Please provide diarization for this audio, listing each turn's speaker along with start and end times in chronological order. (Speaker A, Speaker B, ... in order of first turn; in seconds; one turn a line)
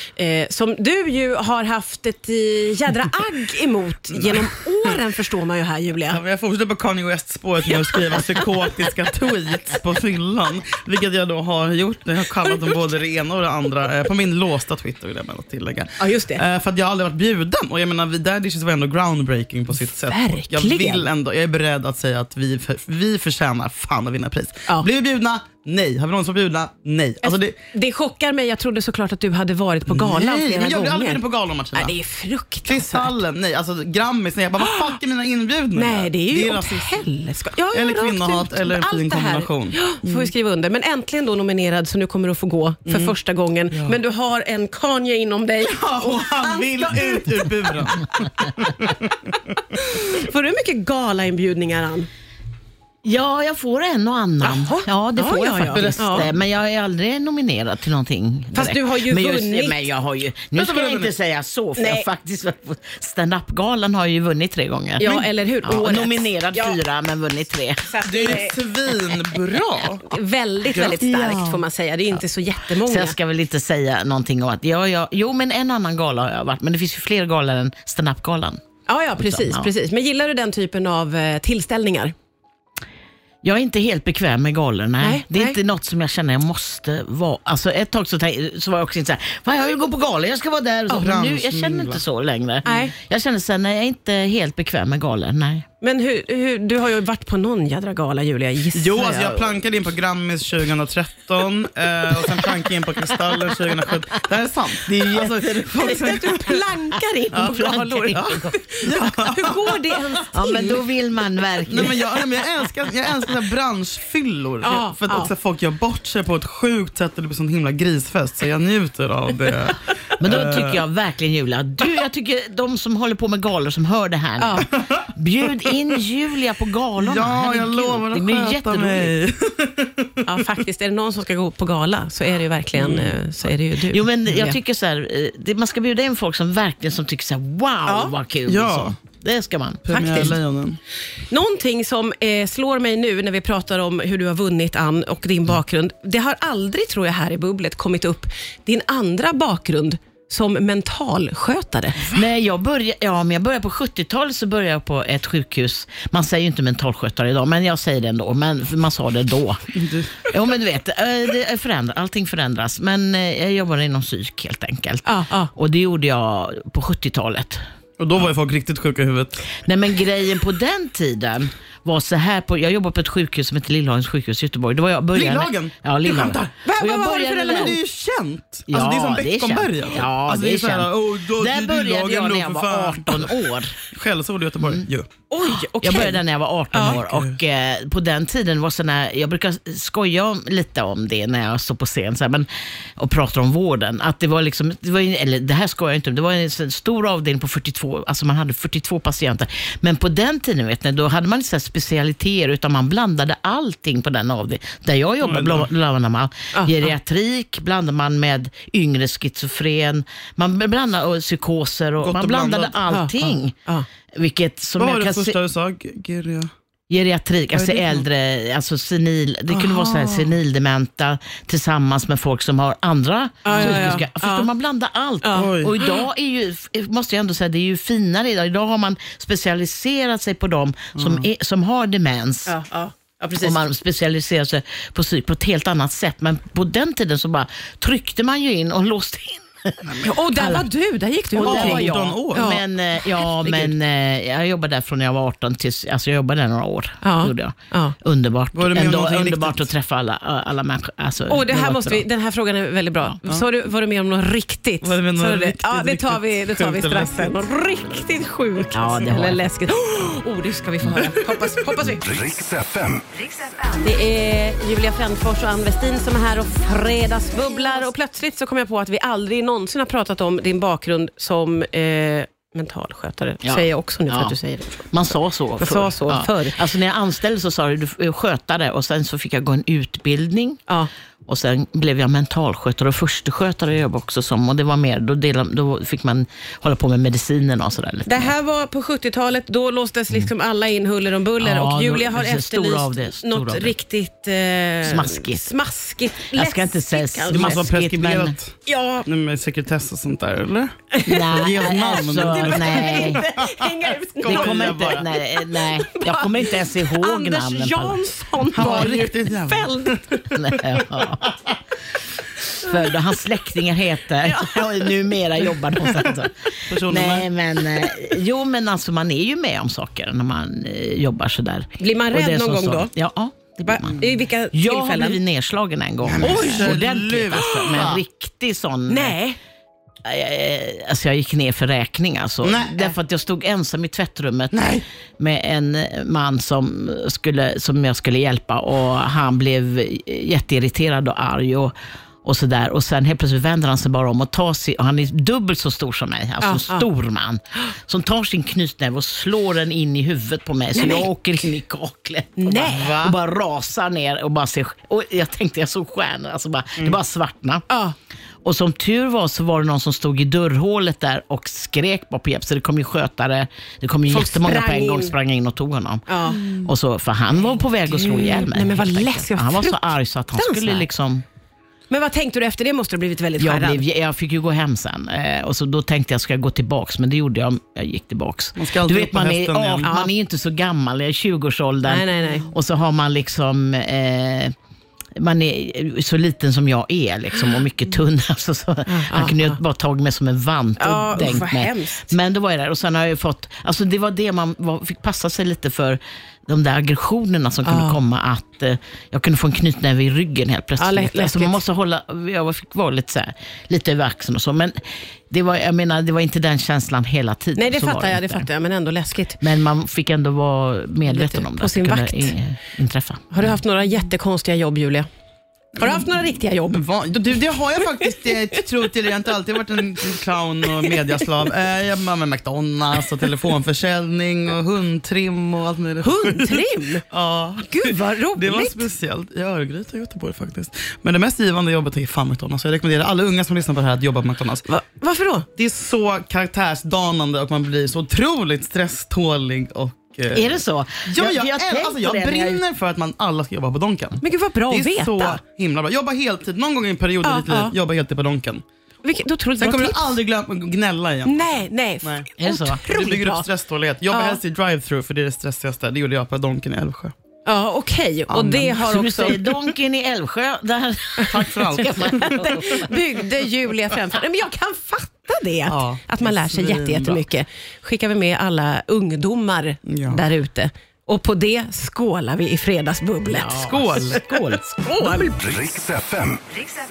Speaker A: 0.1-6.2
Speaker B: 4.1-5.0
Speaker B: 6.1-27.6
Speaker A: 7.7-8.4
Speaker A: 16.0-16.4
Speaker A: 19.7-21.0
Speaker A: 27.2-31.2
Speaker B: 29.9-31.9
Speaker A: 31.7-33.2
Speaker B: 32.7-37.0
Speaker A: 34.6-34.9
Speaker A: 35.7-47.5
Speaker B: 37.7-40.3
Speaker B: 42.9-43.1
Speaker B: 43.7-44.0
Speaker B: 45.6-49.3
Speaker A: 49.8-52.1
Speaker C: 53.0-65.1
Speaker A: 54.4-56.3
Speaker B: 55.7-56.3
Speaker A: 58.5-59.9
Speaker B: 60.5-61.1
Speaker A: 61.8-62.1
Speaker A: 65.0-66.8
Speaker B: 65.0-65.3
Speaker C: 65.6-67.9
Speaker B: 65.8-66.1
Speaker A: 67.8-68.6
Speaker B: 68.0-70.1
Speaker A: 70.0-73.2
Speaker B: 70.7-71.6
Speaker C: 72.8-78.6
Speaker A: 78.9-82.1
Speaker C: 79.2-79.7
Speaker C: 83.4-95.6
Speaker A: 85.0-85.6
Speaker B: 90.9-92.0
Speaker A: 92.6-92.9
Speaker A: 95.8-99.6
Speaker B: 98.7-106.7
Speaker C: 102.1-102.5
Speaker C: 103.1-103.9
Speaker C: 104.8-108.5
Speaker A: 105.7-110.8
Speaker B: 108.1-109.9
Speaker C: 110.3-112.1
Speaker B: 111.7-120.8
Speaker A: 114.6-115.3
Speaker C: 120.2-129.1
Speaker A: 124.4-124.7
Speaker B: 124.7-125.8
Speaker B: 127.0-130.2
Speaker A: 130.2-134.5
Speaker B: 132.8-133.2
Speaker C: 133.8-140.3
Speaker A: 137.8-138.1
Speaker B: 138.5-139.0
Speaker B: 139.9-140.8
Speaker A: 139.9-140.3
Speaker A: 141.3-152.1
Speaker C: 152.1-167.6
Speaker B: 159.7-160.1
Speaker A: 165.1-165.5
Speaker B: 168.0-169.6
Speaker C: 169.6-177.7
Speaker B: 175.1-176.5
Speaker A: 176.6-177.8
Speaker B: 177.4-185.1
Speaker C: 178.7-183.8
Speaker A: 185.3-186.2
Speaker C: 185.6-213.6
Speaker A: 186.7-187.0
Speaker B: 186.8-187.4
Speaker B: 205.2-205.7
Speaker B: 212.0-213.3
Speaker C: 214.1-215.4
Speaker B: 214.8-216.5
Speaker C: 216.9-232.6
Speaker B: 217.5-218.0
Speaker B: 219.5-220.3
Speaker A: 223.4-224.5
Speaker B: 223.5-223.9
Speaker A: 225.2-226.0
Speaker B: 225.3-225.8
Speaker B: 230.9-231.2
Speaker A: 232.5-233.6
Speaker C: 233.4-240.7
Speaker B: 239.8-240.6
Speaker A: 240.0-243.7
Speaker C: 241.3-252.1
Speaker B: 241.4-242.6
Speaker A: 247.0-247.9
Speaker B: 248.5-249.6
Speaker A: 251.3-262.0
Speaker B: 254.8-257.4
Speaker C: 258.7-259.4
Speaker D: 261.9-263.1
Speaker A: 263.7-274.9
Speaker C: 273.4-274.4
Speaker C: 274.9-280.6
Speaker A: 275.6-276.6
Speaker C: 281.2-288.3
Speaker A: 288.1-297.6
Speaker C: 291.4-293.7
Speaker C: 294.8-295.5
Speaker C: 296.3-298.4
Speaker B: 297.3-305.0
Speaker A: 298.6-299.1
Speaker A: 300.9-310.3
Speaker C: 301.0-303.2
Speaker C: 304.2-308.0
Speaker B: 308.5-310.2
Speaker C: 310.3-311.4
Speaker A: 312.6-312.9
Speaker C: 312.6-329.1
Speaker A: 314.2-315.0
Speaker B: 316.7-317.3
Speaker A: 321.8-322.9
Speaker A: 323.6-325.2
Speaker B: 326.1-328.0
Speaker A: 326.2-326.7
Speaker A: 327.4-327.8
Speaker A: 328.9-329.4
Speaker C: 330.0-357.6
Speaker B: 332.4-332.8
Speaker B: 334.5-334.8
Speaker A: 346.4-346.9
Speaker A: 350.7-351.1
Speaker A: 352.4-352.9
Speaker B: 352.6-353.1
Speaker A: 357.7-357.9
Speaker C: 358.4-371.2
Speaker A: 364.1-365.1
Speaker A: 366.1-366.4
Speaker B: 366.4-366.7
Speaker A: 367.9-370.9
Speaker A: 371.9-373.8
Speaker C: 373.4-384.5
Speaker B: 378.6-379.9
Speaker A: 379.9-380.1
Speaker A: 381.8-382.5
Speaker C: 385.1-404.8
Speaker A: 388.9-389.6
Speaker A: 390.8-392.1
Speaker A: 397.6-398.0
Speaker A: 400.8-401.6
Speaker C: 405.3-408.5
Speaker A: 407.6-409.4
Speaker C: 409.4-413.5
Speaker A: 411.1-412.3
Speaker A: 413.3-415.1
Speaker B: 415.8-434.6
Speaker A: 415.8-416.8
Speaker A: 418.0-418.6
Speaker A: 420.8-421.3
Speaker A: 426.0-427.0
Speaker A: 427.7-428.8
Speaker A: 434.7-435.5
Speaker B: 435.6-448.6
Speaker C: 440.3-442.6
Speaker A: 444.2-445.4
Speaker A: 447.2-447.7
Speaker A: 449.0-450.1
Speaker B: 449.6-452.3
Speaker A: 451.2-453.4
Speaker C: 452.4-452.8
Speaker B: 452.8-457.1
Speaker A: 454.1-454.4
Speaker A: 457.4-459.5
Speaker B: 458.3-458.8
Speaker C: 458.8-462.9
Speaker B: 461.3-462.6
Speaker A: 462.0-474.1
Speaker B: 465.7-467.2
Speaker B: 469.9-470.2
Speaker C: 473.2-474.8
Speaker B: 473.6-474.3
Speaker A: 474.8-475.4
Speaker D: 475.4-476.6